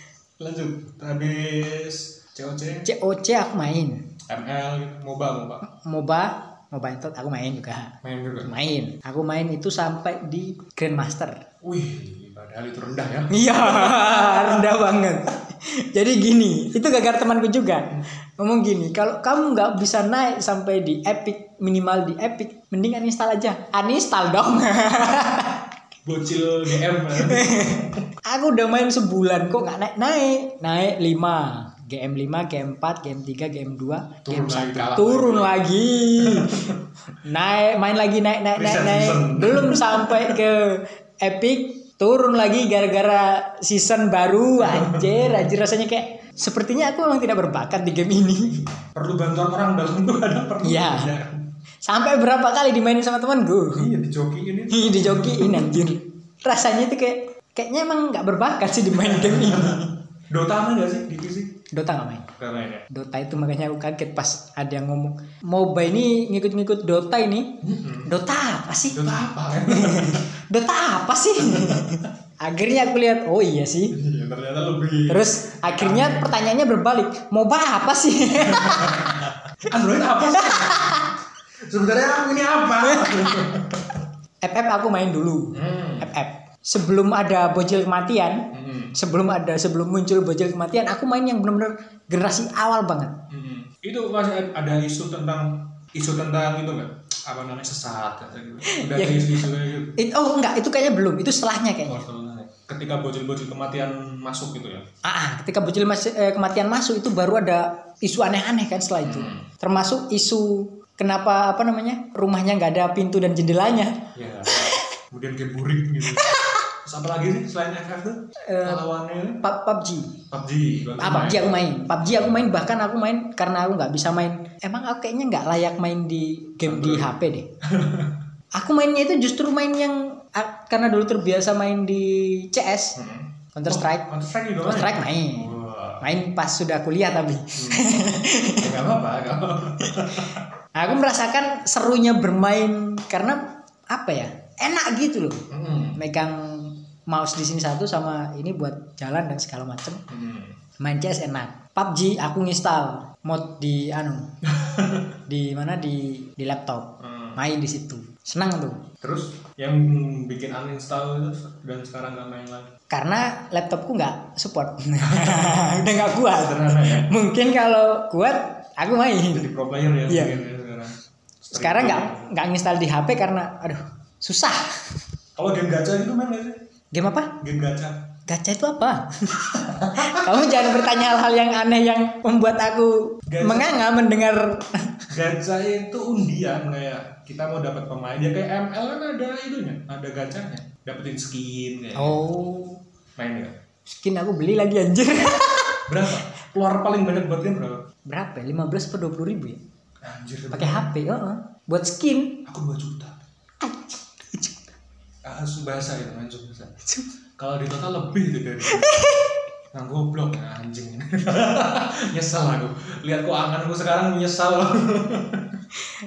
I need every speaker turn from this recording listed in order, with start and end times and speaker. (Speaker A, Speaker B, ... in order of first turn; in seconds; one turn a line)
Speaker A: 0.4-2.9
Speaker B: 2.9-4.0
Speaker A: 4.3-5.6
Speaker B: 5.6-11.4
Speaker A: 8.0-8.5
Speaker A: 11.6-14.8
Speaker B: 13.3-25.6
Speaker A: 26.0-28.1
Speaker B: 27.1-48.7
Speaker A: 34.3-35.6
Speaker A: 36.2-36.9
Speaker A: 38.6-40.5
Speaker A: 44.6-45.5
Speaker A: 48.7-51.5
Speaker B: 50.6-51.1
Speaker B: 51.8-53.9
Speaker A: 53.7-55.9
Speaker B: 54.7-59.9
Speaker A: 59.0-61.6
Speaker B: 61.7-62.3
Speaker A: 62.4-62.9
Speaker B: 62.9-69.0
Speaker A: 67.6-68.1
Speaker A: 68.9-70.3
Speaker B: 69.6-74.0
Speaker A: 71.4-72.1
Speaker A: 73.9-76.3
Speaker B: 75.1-79.2
Speaker A: 78.4-81.1
Speaker B: 80.3-81.1
Speaker A: 81.6-84.0
Speaker B: 82.8-83.6
Speaker B: 84.4-93.2
Speaker A: 85.5-86.1
Speaker A: 88.5-88.9
Speaker A: 93.3-100.0
Speaker B: 98.7-99.5
Speaker B: 100.0-102.0
Speaker A: 101.8-104.8
Speaker B: 105.0-114.8
Speaker A: 109.0-109.5
Speaker A: 114.2-119.4
Speaker B: 116.1-116.6
Speaker B: 118.5-118.8
Speaker B: 119.4-120.2
Speaker A: 120.3-122.5
Speaker B: 121.0-127.5
Speaker A: 126.6-127.1
Speaker A: 127.6-128.2
Speaker B: 128.6-133.0
Speaker A: 133.0-136.2
Speaker B: 133.6-134.1
Speaker B: 134.6-138.8
Speaker A: 137.6-137.9
Speaker A: 138.6-140.4
Speaker B: 139.8-145.4
Speaker A: 145.5-146.0
Speaker B: 146.0-150.0
Speaker A: 150.1-150.6
Speaker B: 150.8-154.3
Speaker A: 154.4-155.2
Speaker B: 155.3-158.9
Speaker A: 157.0-157.4
Speaker A: 159.0-162.7
Speaker B: 162.9-169.5
Speaker A: 165.0-167.1
Speaker A: 169.3-172.3
Speaker B: 170.1-170.4
Speaker B: 171.5-175.0
Speaker A: 175.4-176.6
Speaker B: 176.9-177.3
Speaker A: 177.4-178.1
Speaker B: 178.3-185.1
Speaker A: 179.5-180.9
Speaker A: 183.3-183.8
Speaker A: 185.1-192.3
Speaker B: 192.0-192.8
Speaker A: 193.2-193.6
Speaker B: 193.9-195.9
Speaker A: 195.9-197.8
Speaker B: 198.1-199.6
Speaker A: 200.0-200.9
Speaker B: 200.5-202.4
Speaker A: 202.4-203.2
Speaker B: 203.6-204.6
Speaker A: 205.2-206.8
Speaker A: 207.4-208.9
Speaker B: 208.7-209.4
Speaker A: 209.7-215.6